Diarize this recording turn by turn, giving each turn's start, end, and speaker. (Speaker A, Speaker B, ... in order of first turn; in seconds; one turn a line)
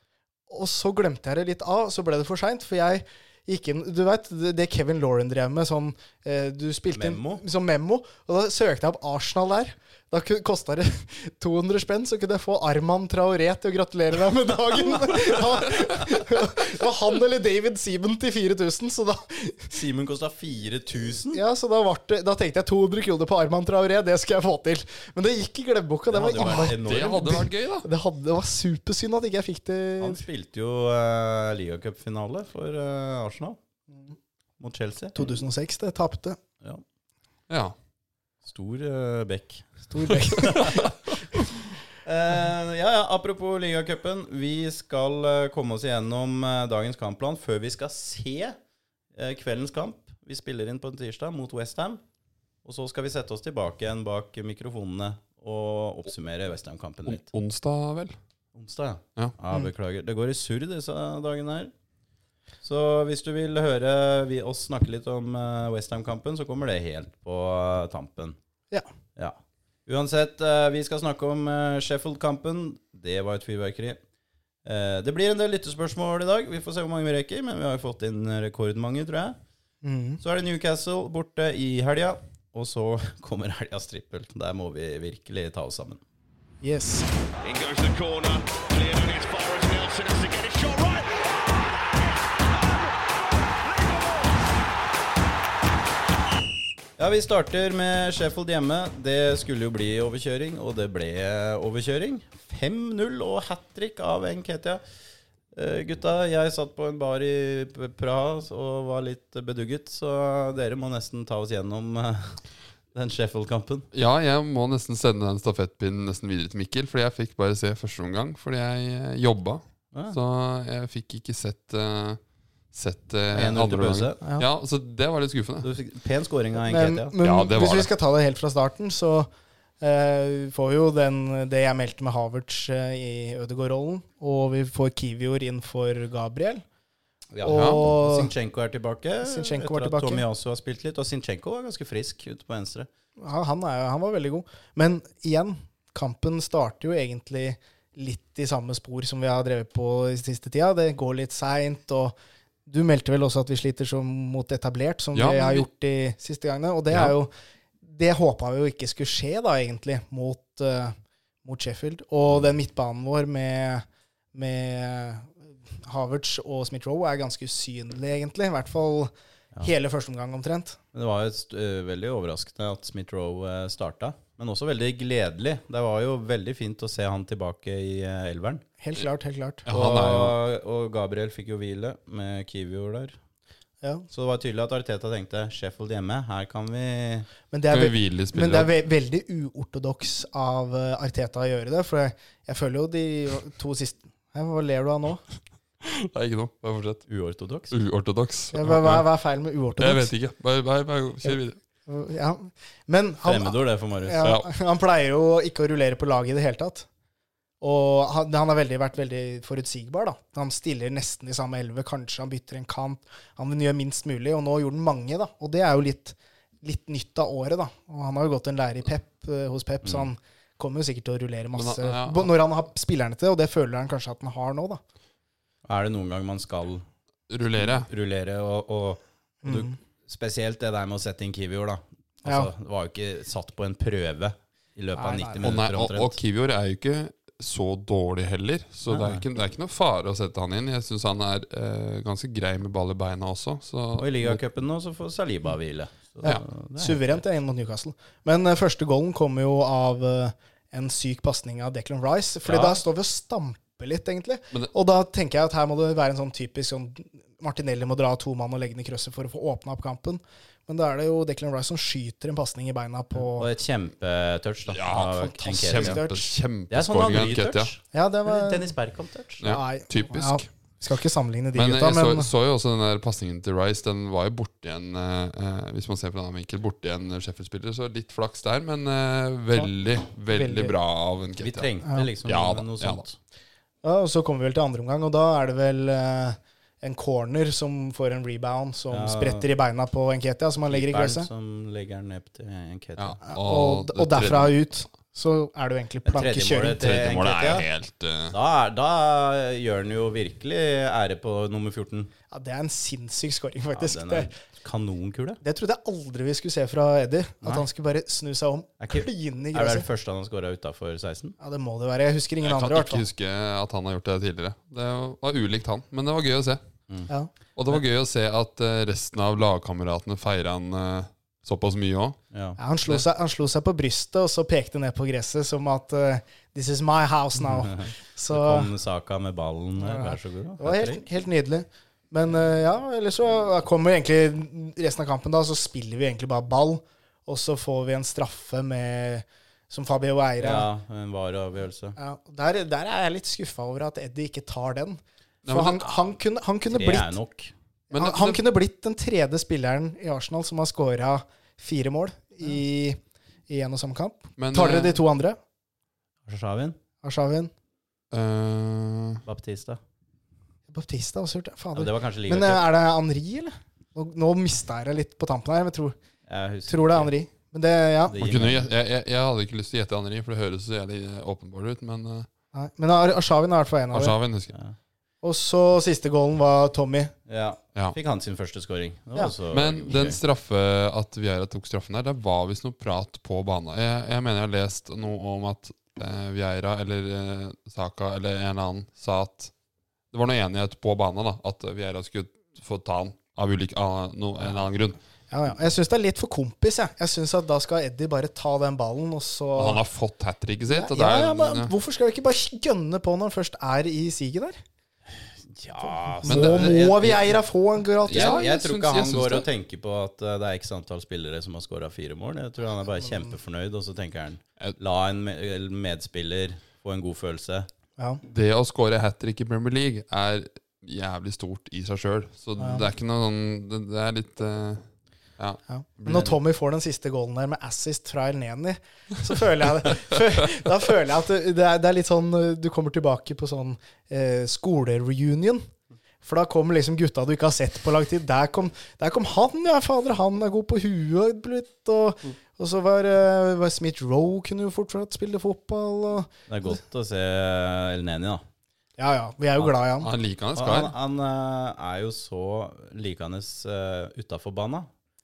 Speaker A: 0.5-19.7
Speaker B: 6.9-7.4
Speaker B: 19.7-21.4
Speaker A: 21.3-30.2
Speaker B: 26.1-27.5
Speaker C: 26.4-27.9
Speaker B: 30.0-33.6
Speaker B: 34.6-35.2
Speaker A: 35.1-36.4
Speaker C: 37.5-37.7
Speaker B: 38.4-40.8
Speaker A: 39.9-41.4
Speaker B: 42.0-48.6
Speaker B: 49.1-52.0
Speaker B: 52.6-57.2
Speaker C: 57.1-58.1
Speaker B: 58.5-61.7
Speaker B: 62.6-68.4
Speaker B: 69.2-74.0
Speaker B: 74.6-79.4
Speaker A: 79.8-80.2
Speaker B: 80.2-86.0
Speaker A: 86.6-87.1
Speaker D: 87.4-91.5
Speaker D: 92.5-92.9
Speaker B: 97.0-104.8
Speaker B: 105.5-112.4
Speaker B: 112.9-113.9
Speaker C: 113.9-122.2
Speaker C: 122.7-125.7
Speaker B: 123.3-124.2
Speaker B: 125.6-127.1
Speaker A: 126.6-136.6
Speaker C: 127.2-127.9
Speaker B: 137.3-142.9
Speaker A: 137.4-138.3
Speaker C: 137.4-137.8
Speaker A: 139.2-140.2
Speaker A: 143.2-152.1
Speaker A: 152.7-169.1
Speaker C: 155.1-155.7
Speaker C: 156.9-157.2
Speaker A: 169.6-170.8
Speaker B: 170.9-178.6
Speaker A: 178.8-179.7
Speaker C: 179.7-180.3
Speaker B: 179.7-183.2
Speaker B: 184.1-187.3
Speaker A: 187.5-195.2
Speaker C: 187.7-188.7
Speaker C: 195.8-197.0
Speaker B: 197.1-197.7
Speaker C: 197.7-199.1
Speaker A: 198.5-200.1
Speaker C: 199.8-201.6
Speaker A: 201.2-206.9
Speaker B: 203.2-204.2
Speaker C: 204.2-204.5
Speaker A: 207.6-224.8
Speaker B: 219.8-220.1
Speaker C: 221.5-222.3
Speaker B: 225.7-226.8
Speaker C: 227.3-227.9
Speaker B: 227.6-236.2
Speaker A: 229.4-229.8
Speaker A: 234.9-235.5
Speaker C: 235.4-244.4
Speaker B: 238.9-239.2
Speaker B: 244.0-247.2
Speaker A: 246.2-263.5
Speaker C: 252.5-252.8
Speaker B: 263.3-266.0
Speaker C: 264.7-267.7
Speaker A: 265.2-266.3
Speaker B: 266.7-269.4
Speaker A: 267.9-268.7
Speaker C: 269.4-270.4
Speaker A: 269.4-272.3
Speaker C: 271.5-281.7
Speaker A: 280.3-280.7
Speaker B: 281.4-283.2
Speaker C: 282.2-283.0
Speaker A: 283.8-291.3
Speaker B: 288.9-289.4
Speaker B: 290.7-293.2
Speaker C: 293.0-294.5
Speaker A: 293.2-296.8
Speaker B: 296.0-297.6
Speaker C: 296.8-298.4
Speaker B: 298.3-302.1
Speaker A: 302.3-304.3
Speaker B: 303.7-305.4
Speaker A: 305.4-309.9
Speaker B: 308.8-311.4
Speaker A: 311.4-313.0
Speaker C: 312.4-316.6
Speaker C: 317.6-322.2
Speaker B: 322.3-322.6
Speaker A: 322.6-328.7
Speaker B: 327.5-331.0
Speaker A: 329.8-340.7
Speaker B: 340.4-342.0
Speaker A: 341.9-347.2
Speaker C: 345.4-345.8
Speaker B: 346.7-347.5
Speaker C: 347.9-348.4
Speaker A: 347.9-355.4
Speaker C: 354.4-355.0
Speaker B: 356.2-356.8
Speaker A: 357.0-357.5
Speaker C: 358.1-359.2
Speaker B: 359.2-359.8
Speaker A: 360.7-365.9
Speaker B: 361.7-362.7
Speaker B: 366.3-367.1
Speaker A: 366.7-368.2
Speaker B: 368.1-368.7
Speaker C: 368.2-372.3
Speaker A: 372.5-374.1
Speaker C: 373.9-374.5
Speaker A: 375.2-377.1
Speaker B: 377.3-380.2
Speaker C: 379.5-389.5
Speaker C: 390.1-395.0
Speaker A: 395.3-399.8
Speaker C: 399.6-401.7
Speaker A: 400.7-404.6
Speaker B: 405.5-407.4
Speaker A: 406.2-408.4
Speaker C: 406.3-407.2
Speaker C: 408.0-409.4
Speaker B: 408.0-417.7
Speaker A: 413.0-413.3
Speaker C: 418.3-424.8
Speaker A: 422.6-422.9
Speaker C: 425.4-426.3
Speaker A: 425.7-435.7
Speaker A: 436.2-446.8
Speaker B: 446.5-448.4
Speaker A: 449.0-450.1
Speaker C: 449.6-450.9
Speaker B: 450.6-454.9